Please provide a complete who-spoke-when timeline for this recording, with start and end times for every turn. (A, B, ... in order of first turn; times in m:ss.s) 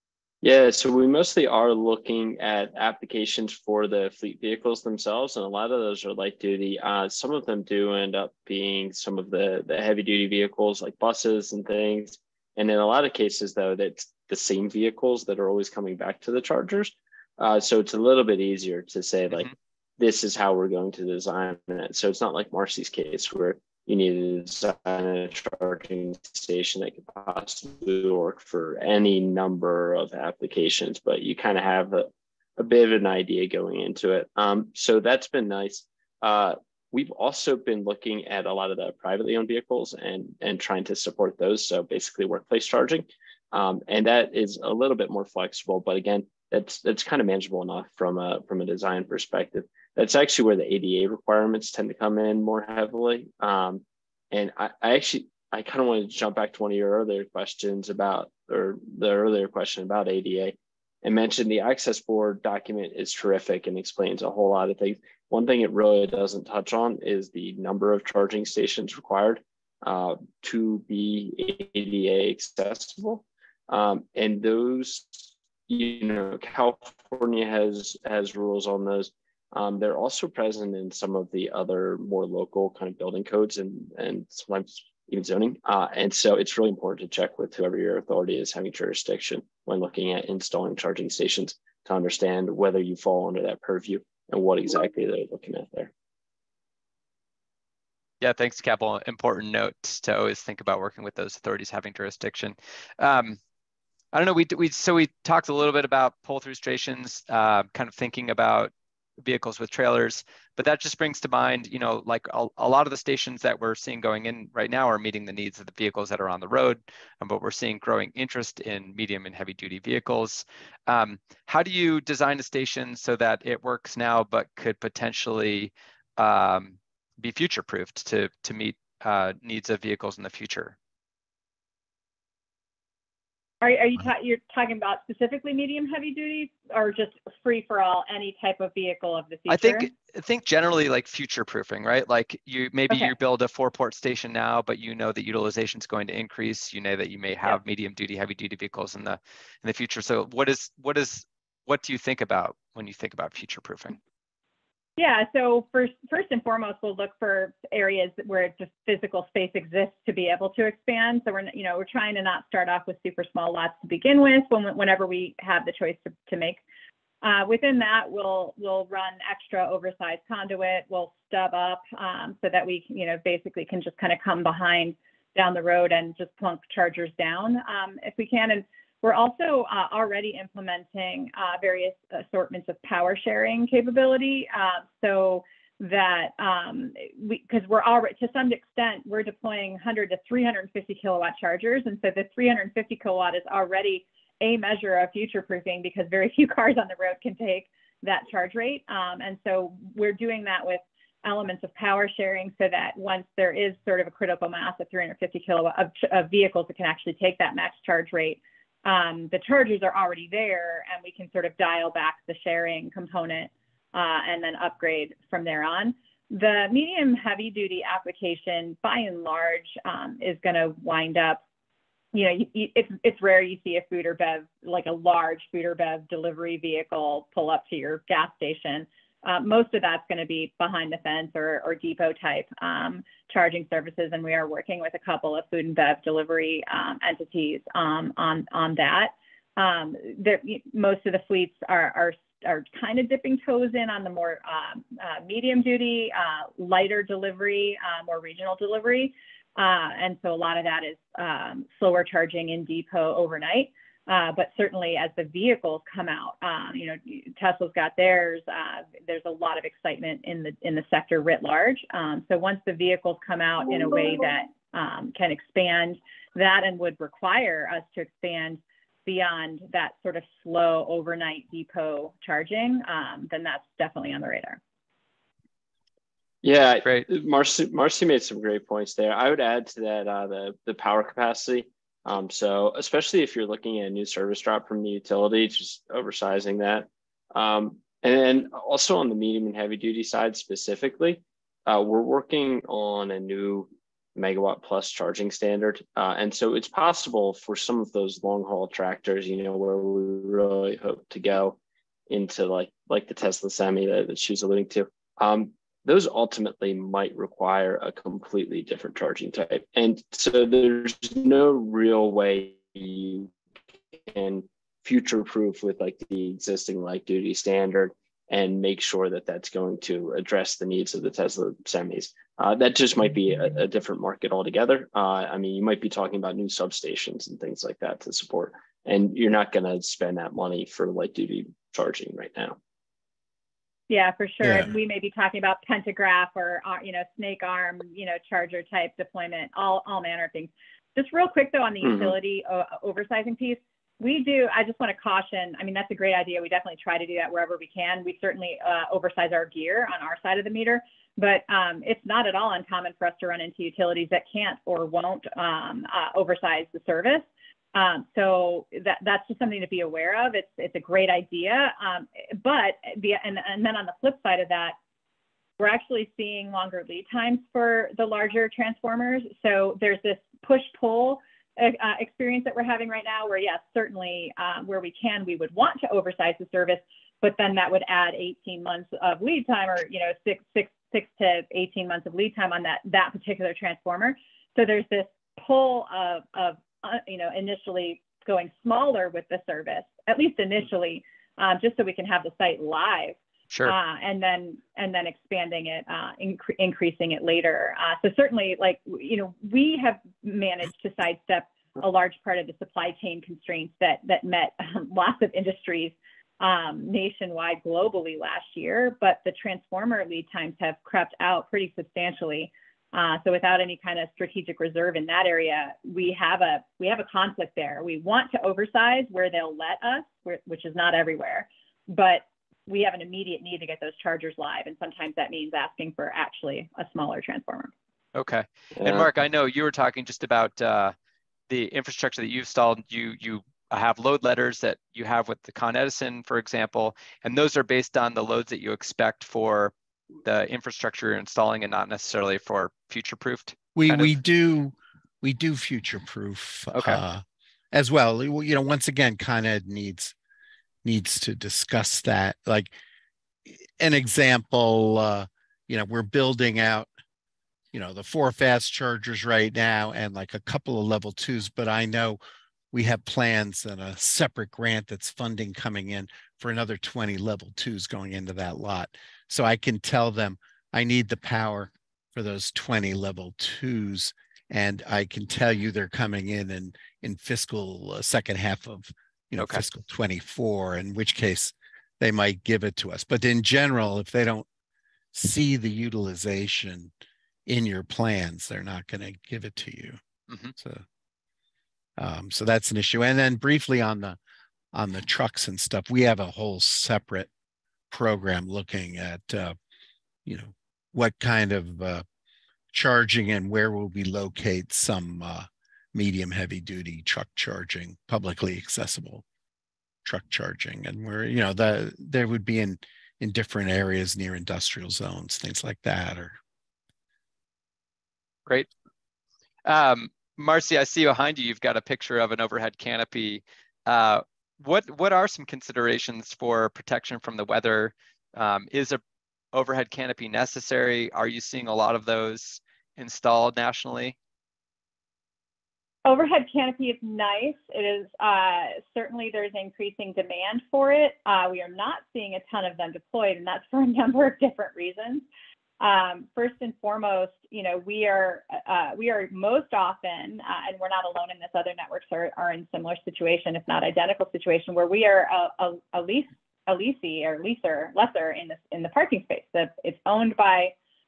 0:00.4-1:35.9 A
1:38.2-1:43.4 B
1:44.1-2:10.7 B
2:13.6-2:19.9 C
2:19.5-2:34.0 B
2:35.0-2:46.6 C
2:47.2-3:41.4 C
3:42.1-4:34.6 C
4:36.4-5:01.6 A
5:02.1-5:13.3 A
5:14.0-5:32.6 A
5:33.9-6:04.8 C
5:34.4-5:34.7 D
5:41.8-5:42.1 A
6:05.6-7:07.7 C
7:08.1-7:10.9 B
7:08.8-7:09.1 A
7:11.5-7:19.7 B
7:20.2-7:24.1 B
7:23.7-7:30.1 D
7:26.7-7:27.0 B
7:30.8-7:32.7 D
7:33.5-7:36.9 D
7:37.7-7:42.2 D
7:42.7-8:04.4 D
7:59.4-7:59.6 B
8:05.1-8:06.9 D
8:07.5-8:10.0 D
8:10.6-8:10.8 D
8:12.0-8:14.2 D
8:14.7-8:17.3 D
8:17.9-8:19.6 D
8:20.2-8:22.0 D
8:22.7-8:29.2 D
8:30.0-8:36.4 D
8:39.6-8:49.0 B
8:49.5-8:54.2 B
8:56.0-9:05.2 C
9:05.8-9:20.7 C